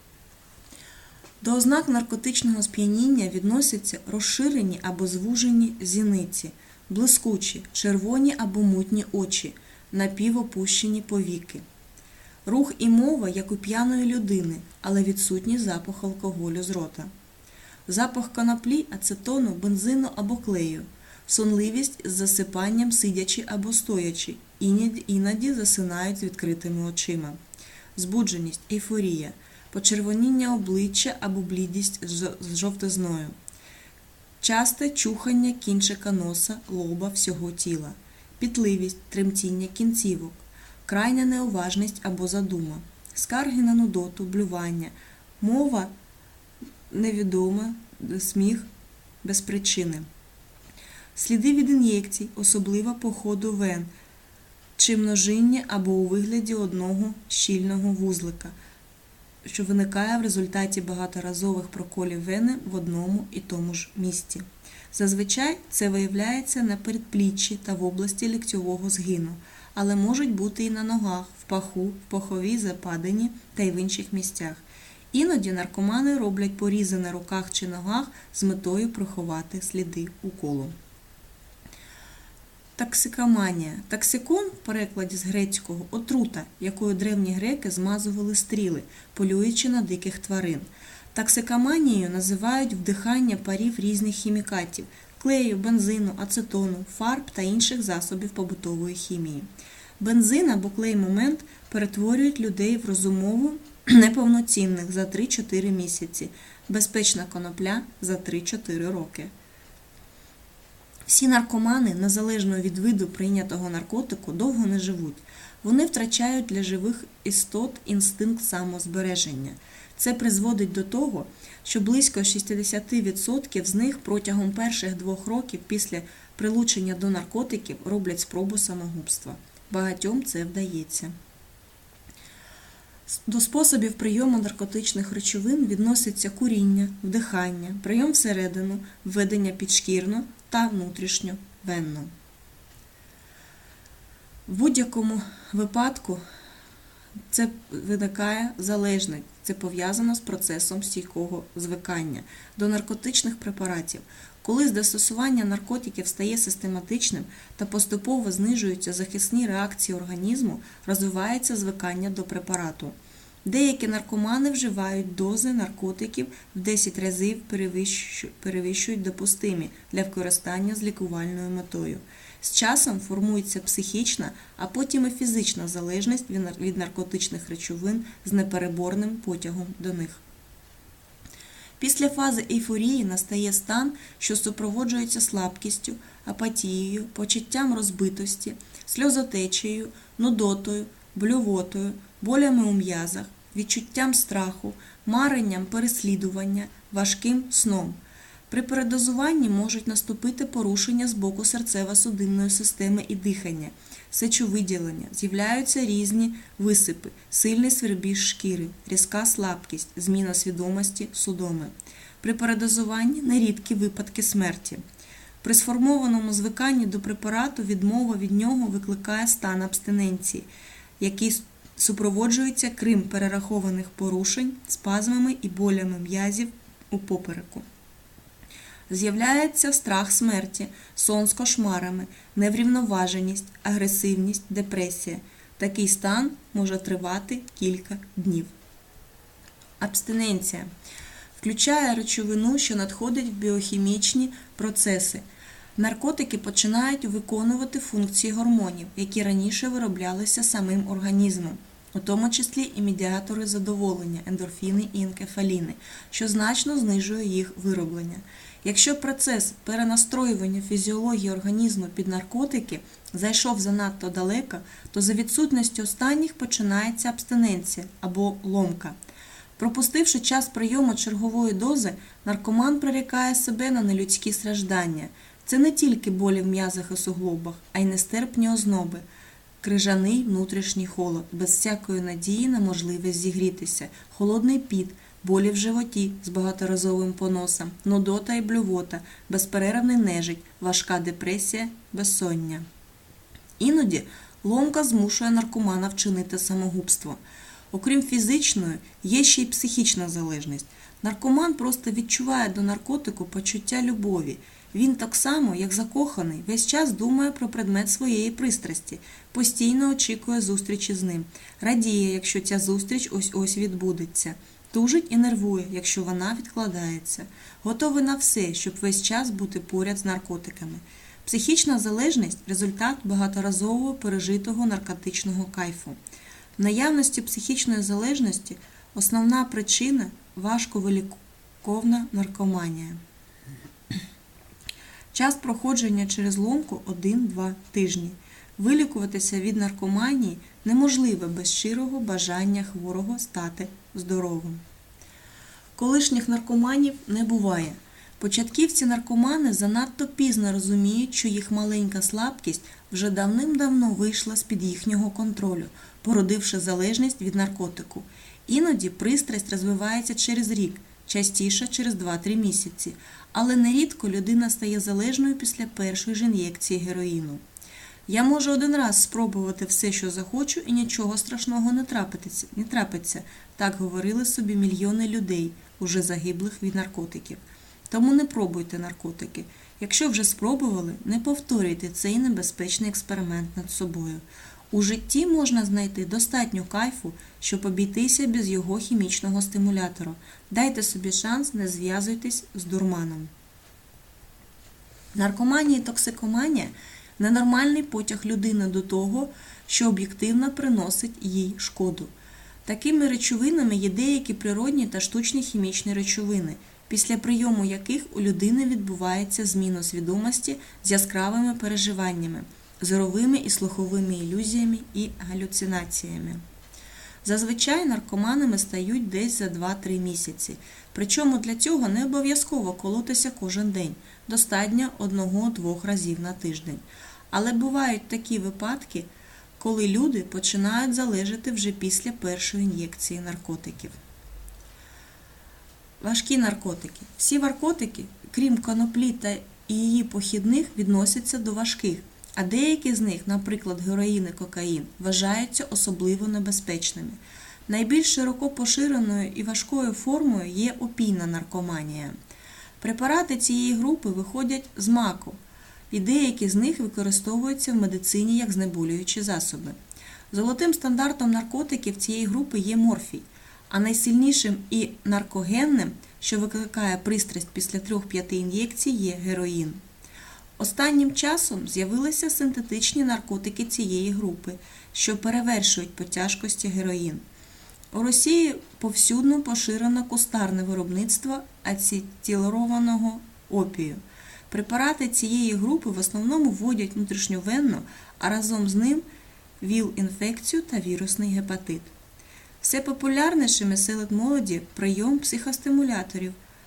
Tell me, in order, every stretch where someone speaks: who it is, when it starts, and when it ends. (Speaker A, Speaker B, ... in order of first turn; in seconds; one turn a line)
Speaker A: 1.4-11.6
Speaker A: 12.4-17.1
Speaker A: 17.9-27.4
Speaker A: 27.9-33.3
Speaker A: 34.4-45.9
Speaker A: 46.9-48.6
Speaker A: 49.2-50.1
Speaker A: 51.1-53.9
Speaker A: 54.8-58.5
Speaker A: 59.4-80.7
Speaker A: 82.8-99.5
Speaker A: 100.0-109.3
Speaker A: 111.1-131.1
Speaker A: 133.1-142.1
Speaker A: 144.5-146.2
Speaker A: 147.3-180.2
Speaker A: 181.8-198.0
Speaker A: 198.5-214.8
Speaker A: 215.4-220.5
Speaker A: 221.0-227.6
Speaker A: 228.9-238.5
Speaker A: 239.8-240.7
Speaker A: 241.4-245.2
Speaker A: 245.8-268.9
Speaker A: 269.6-279.0
Speaker A: 279.6-292.6
Speaker A: 293.6-297.2
Speaker A: 297.7-326.0
Speaker A: 326.6-333.0
Speaker A: 335.1-344.6
Speaker A: 345.8-367.4
Speaker A: 368.1-393.3
Speaker A: 395.1-402.1
Speaker A: 402.6-416.4
Speaker A: 417.2-429.1
Speaker A: 429.6-433.9
Speaker A: 436.0-452.1
Speaker A: 452.8-455.4
Speaker A: 455.9-459.8
Speaker A: 460.3-469.8
Speaker A: 470.6-477.2
Speaker A: 477.9-489.0
Speaker A: 489.6-491.9
Speaker A: 492.6-496.4